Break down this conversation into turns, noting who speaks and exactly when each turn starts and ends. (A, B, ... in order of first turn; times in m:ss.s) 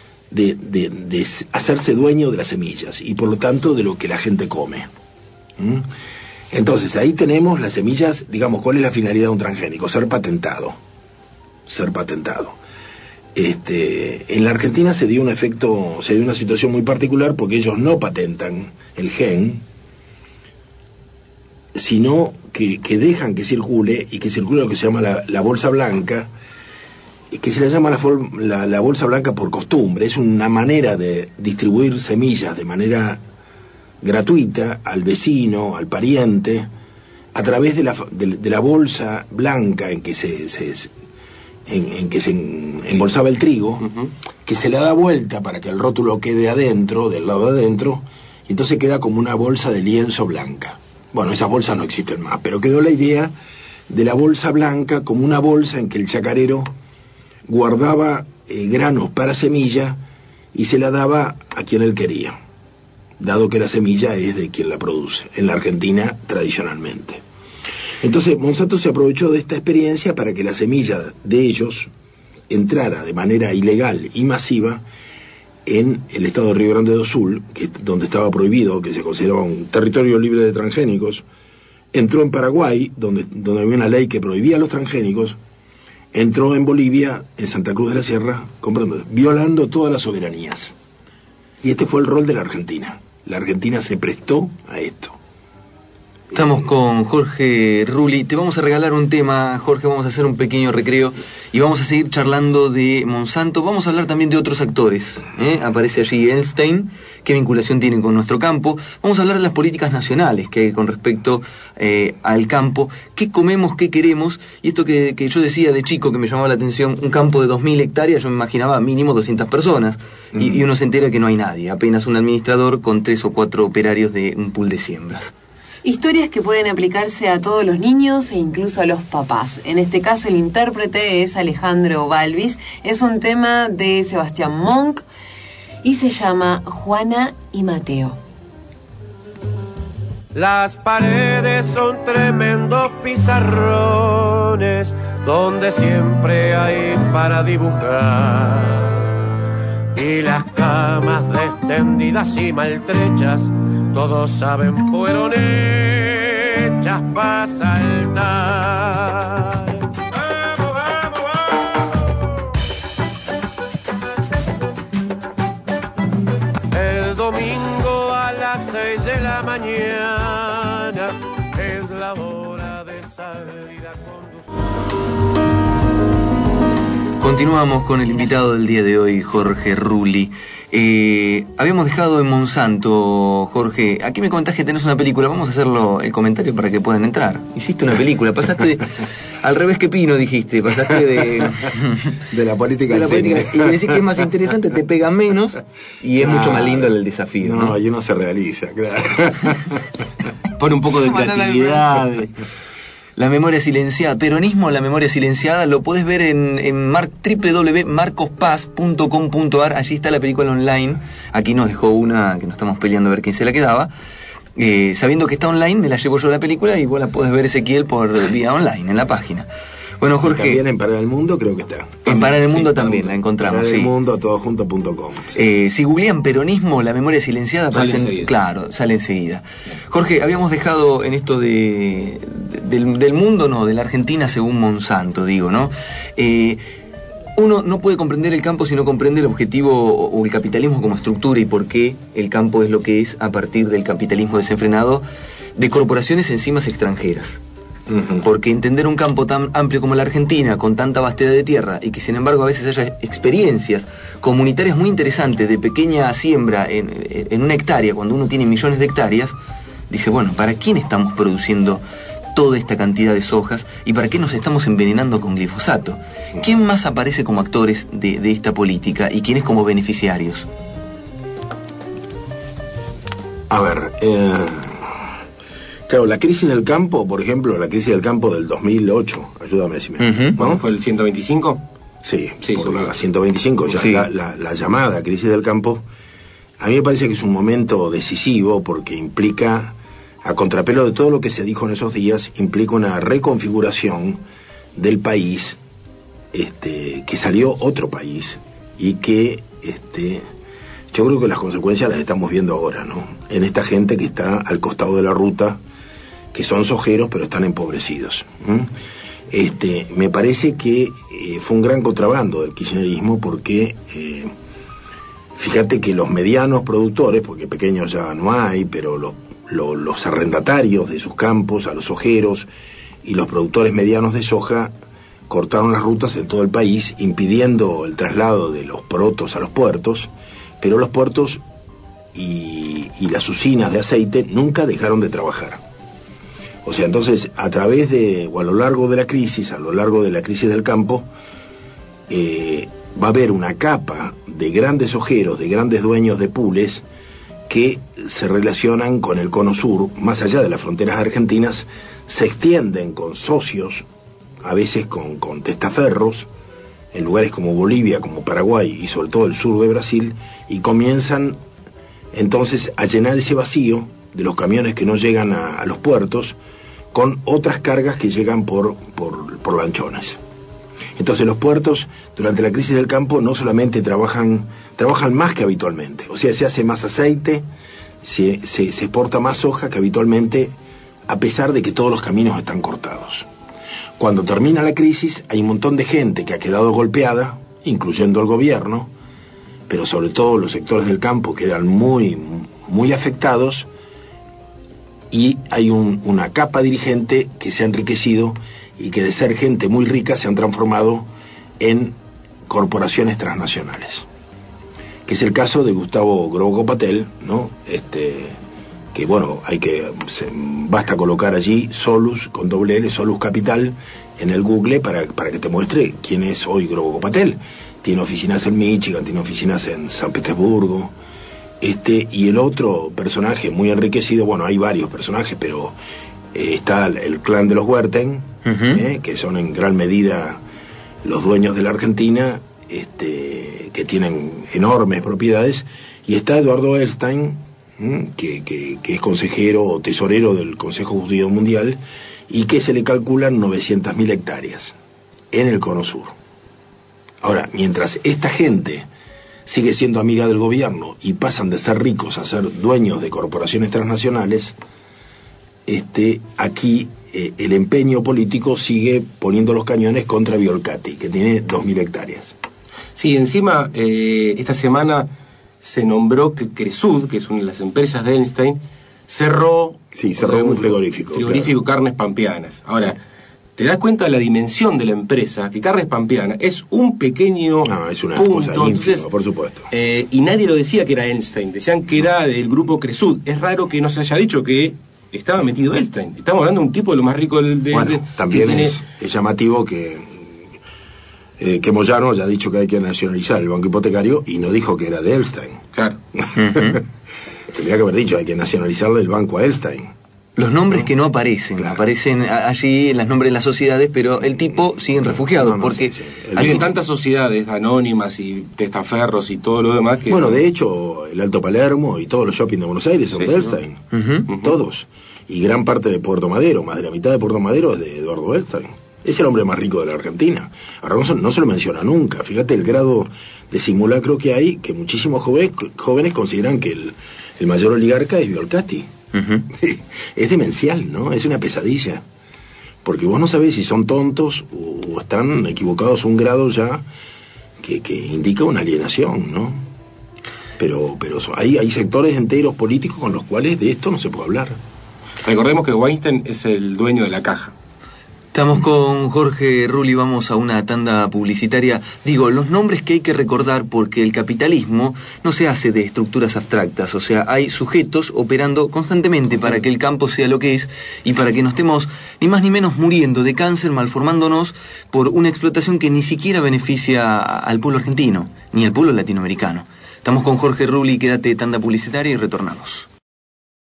0:00.3-0:04.9 A
0:05.6-0:05.9 A
0:06.5-0:10.8 A
0:11.6-0:12.6 A
0:13.3-0:19.6 A
0:21.7-0:26.3 A
0:27.3-0:33.2 A
0:34.0-0:36.7 A
0:37.3-0:40.9 A
0:41.6-0:43.9 A
0:44.4-0:53.3 A
0:53.9-0:56.7 A
0:57.4-1:00.0 A
1:00.5-1:02.4 A
1:03.2-1:07.2 A
1:08.0-1:11.9 A
1:12.5-1:14.8 A
1:15.6-1:21.2 A
1:21.9-1:25.4 A
1:26.1-1:30.8 A
1:31.6-1:35.2 A
1:36.3-2:05.3 B
2:00.4-2:00.6 A
2:05.8-2:15.0 C
2:15.8-2:18.2 C
2:20.3-2:29.0 D
2:29.9-2:41.8 D
2:46.7-2:54.5 D
2:57.2-3:12.0 B
3:12.3-3:13.7 A
3:12.9-3:17.8 B
3:16.2-3:19.8 A
3:20.6-3:22.3 E
3:21.1-3:21.8 C
3:23.2-3:33.9 B
3:34.6-3:39.5 B
3:40.0-3:40.6 B
3:40.2-3:42.2 A
3:42.0-3:43.9 B
3:42.1-3:43.1 E
3:43.3-3:45.4 A
3:45.3-3:56.6 B
3:47.7-3:48.3 E
3:57.4-4:05.0 B
4:05.6-4:07.4 B
4:07.9-4:08.2 A
4:08.2-4:19.4 B
4:19.9-4:21.8 B
4:22.3-4:30.5 B
4:33.5-4:35.1 A
4:35.9-4:40.6 A
4:40.0-4:40.4 B
4:40.4-4:41.6 E
4:42.0-4:45.8 A
4:42.4-4:42.9 E
4:43.8-4:44.0 B
4:46.6-4:54.2 A
4:54.7-4:55.6 A
4:56.3-5:00.2 A
5:00.9-5:05.6 A
5:06.3-5:08.7 A
5:09.3-5:14.3 A
5:15.3-5:22.5 A
5:23.0-5:24.7 A
5:25.3-5:30.1 A
5:30.6-5:31.4 A
5:32.1-5:35.6 A
5:36.6-5:41.1 A
5:42.1-5:46.8 A
5:47.5-5:53.8 A
5:54.4-5:56.3 A
5:56.9-6:01.4 A
6:02.1-6:06.4 A
6:06.9-6:10.2 A
6:11.0-6:17.4 A
6:18.0-6:20.5 A
6:21.1-6:23.3 A
6:24.0-6:28.9 A
6:29.7-6:33.7 A
6:35.1-6:41.1 A
6:41.6-6:44.1 A
6:45.0-6:48.4 A
6:48.9-7:00.9 A
7:01.6-7:05.8 A
7:06.3-7:10.4 A
7:08.4-7:08.8 B
7:11.0-7:24.8 A
7:25.3-7:26.1 A
7:27.2-7:28.9 A
7:29.4-7:34.6 A
7:35.6-7:42.4 A
7:43.0-7:45.1 E
7:45.6-7:53.0 E
7:49.9-7:51.5 A
7:53.6-7:59.1 E
7:57.6-7:59.7 A
7:59.7-8:08.8 E
8:07.7-8:10.4 A
8:11.4-8:16.8 A
8:15.7-8:16.0 E
8:16.4-8:16.8 B
8:17.5-8:19.9 A
8:20.4-8:26.6 B
8:21.6-8:21.8 A
8:24.4-8:26.6 A
8:26.4-8:30.4 E
8:30.1-8:48.9 A
8:33.2-8:33.5 E
8:33.9-8:34.3 B
8:49.1-8:49.5 B
8:49.5-8:52.0 A
8:52.8-8:56.8 A
8:57.6-8:59.6 A
9:00.6-9:04.6 A
9:05.2-9:07.5 E
9:08.3-9:32.9 B